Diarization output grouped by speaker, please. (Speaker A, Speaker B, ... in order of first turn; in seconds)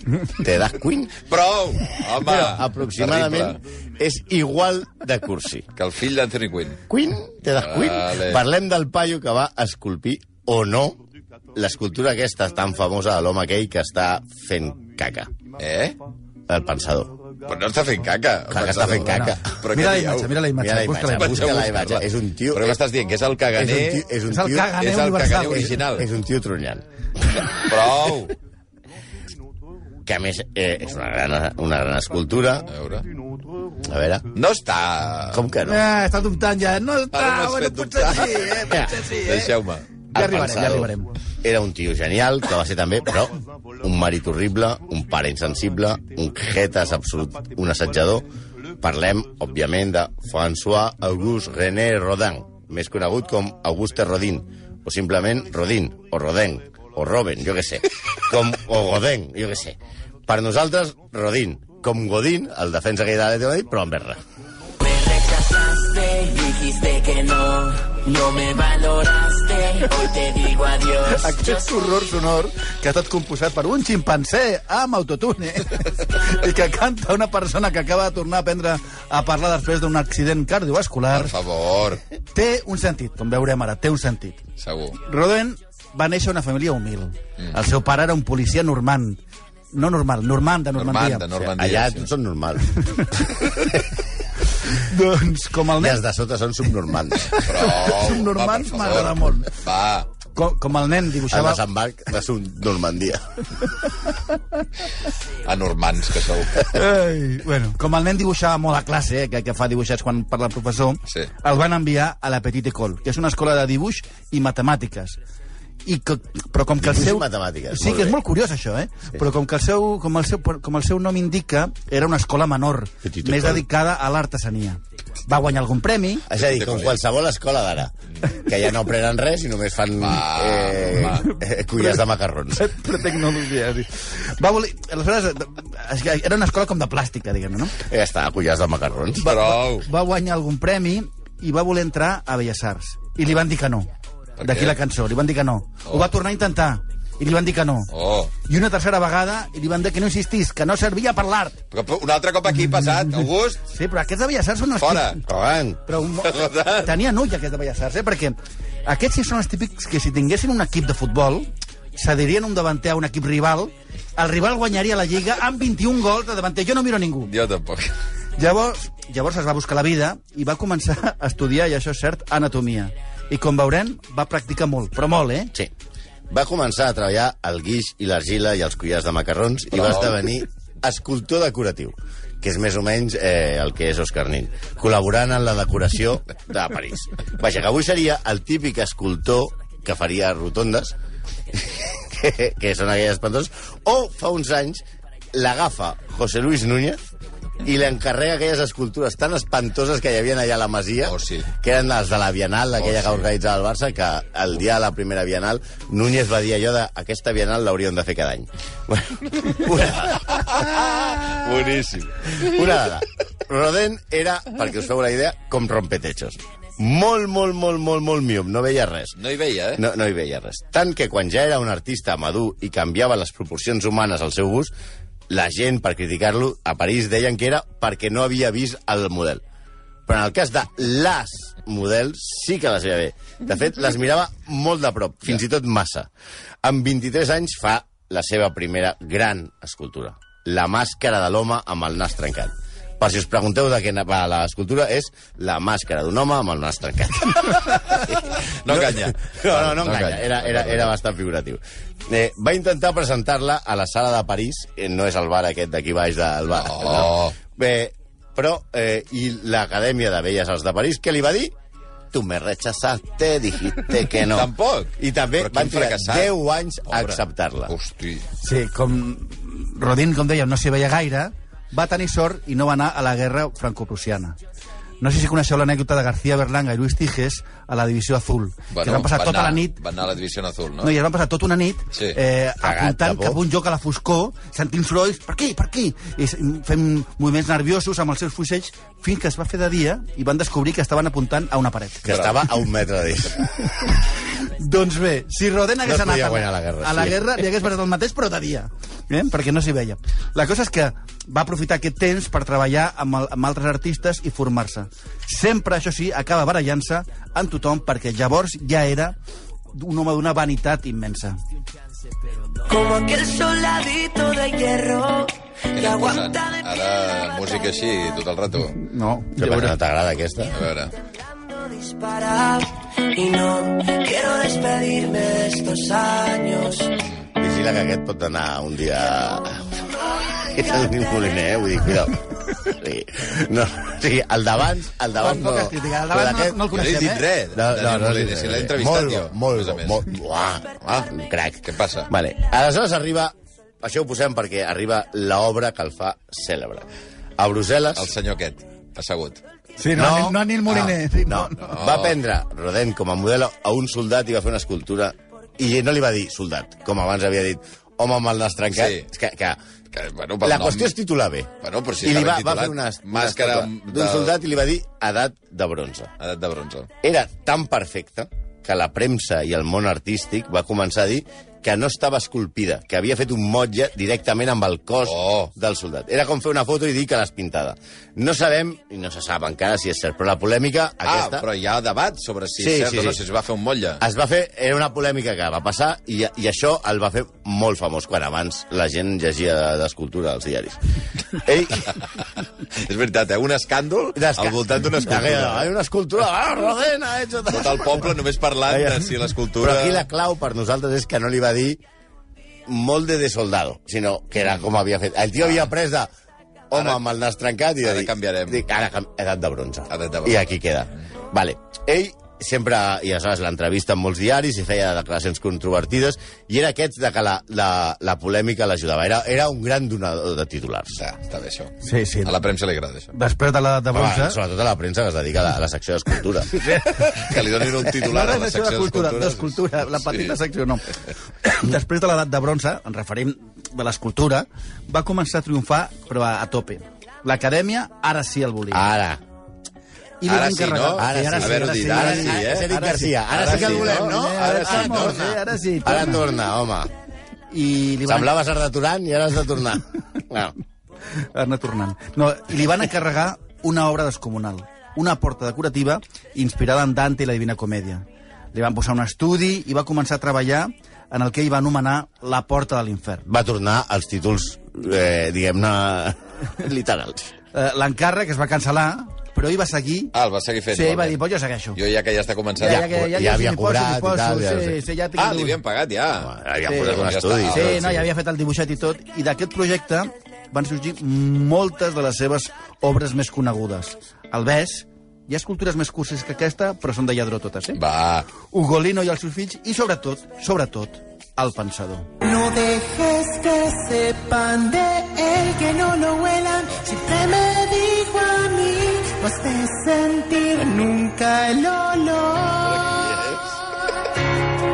Speaker A: 0.3-1.2, 2.2-5.7, 6.9-11.0, 11.6-15.3, 16.5-17.2, 18.5-19.6, 20.6-22.8, 23.6-24.8, 25.6-27.5, 30.1-32.7, 33.8-34.3, 35.3-35.9, 38.7-39.0, 40.1-48.3, 48.8-64.2, 91.5-92.8, 95.8-97.4, 101.3-103.4, 116.8-118.2, 123.0-123.6, 126.3-132.7, 137.8-139.3, 155.2-155.8, 176.3-190.9, 191.5-197.0, 197.6-210.8, 212.3-219.2, 219.7-224.7, 225.3-229.4, 230.1-236.1, 236.6-261.5, 262.1-267.8, 282.6-283.4, 292.1-293.9, 295.8-297.3, 319.4-320.6, 327.4-336.8, 337.5-346.9, 347.4-348.1, 349.9-359.6, 360.4-366.1, 367.0-381.5, 382.6-383.2, 384.0-390.8, 391.3-392.0, 394.1-398.1, 398.7-399.0, 399.6-401.8, 402.7-406.1, 406.7-421.0, 423.9-426.5, 438.7-439.2, 441.0-446.9, 448.1-450.5, 463.3-467.3, 472.6-474.8, 476.2-477.9
Speaker B: 1.3-3.6, 5.8-6.8, 7.6-8.4, 15.6-16.0, 17.5-20.4, 21.2-24.1, 24.8-26.1, 27.5-28.3, 32.7-33.1, 34.3-35.5, 37.1-39.9, 81.1-82.0, 84.6-85.0, 90.8-92.1, 97.4-100.1, 105.5-106.8, 126.3-127.0, 130.0-131.3, 139.2-139.9, 144.4-144.8, 147.9-148.3, 151.7-153.6, 154.8-155.2, 156.2-157.0, 167.3-167.9, 179.8-180.2, 201.1-201.5, 202.8-203.3, 210.3-212.5, 219.2-219.8, 248.4-250.9, 256.5-257.4, 264.1-266.3, 266.9-268.3, 278.7-280.9, 292.1-292.4, 315.7-318.8, 320.5-320.9, 336.7-340.1, 341.6-342.1, 348.0-349.4, 351.6-352.2, 358.7-359.1, 359.9-360.9, 361.6-364.4, 366.2-366.9, 375.1-375.5, 381.1-384.0, 392.7-395.7, 397.5-400.0, 406.7-407.0, 407.8-408.6, 409.9-410.5, 421.0-423.1, 426.8-430.4, 440.3-442.7, 443.3-445.1, 470.1-471.2, 471.8-472.9, 475.2-478.1, 487.8-488.3, 502.7-503.5
Speaker C: 19.1-21.7, 24.3-25.8, 35.6-39.6, 40.1-41.1, 71.1-81.4, 82.3-84.4, 85.0-89.2, 89.7-91.5, 92.8-93.7, 94.6-96.0, 97.2-99.5, 100.3-101.6, 106.6-115.2, 115.8-126.3, 131.2-137.8, 139.2-147.9, 148.4-151.6, 153.7-155.2, 155.9-167.3, 168.4-175.5, 268.4-274.4, 275.0-279.8, 280.8-292.1, 294.4-309.2, 309.7-311.4, 318.7-319.8, 335.2-337.3, 349.8-351.7, 421.8-422.4, 423.1-424.4, 426.6-438.9, 440.2-446.2, 447.5-448.3, 451.2-463.2, 467.5-470.1, 470.7-471.8, 472.6-475.6, 477.5-487.8, 488.4-492.1
Speaker D: 64.8-71.7, 312.7-317.0, 321.4-327.0, 492.2-503.2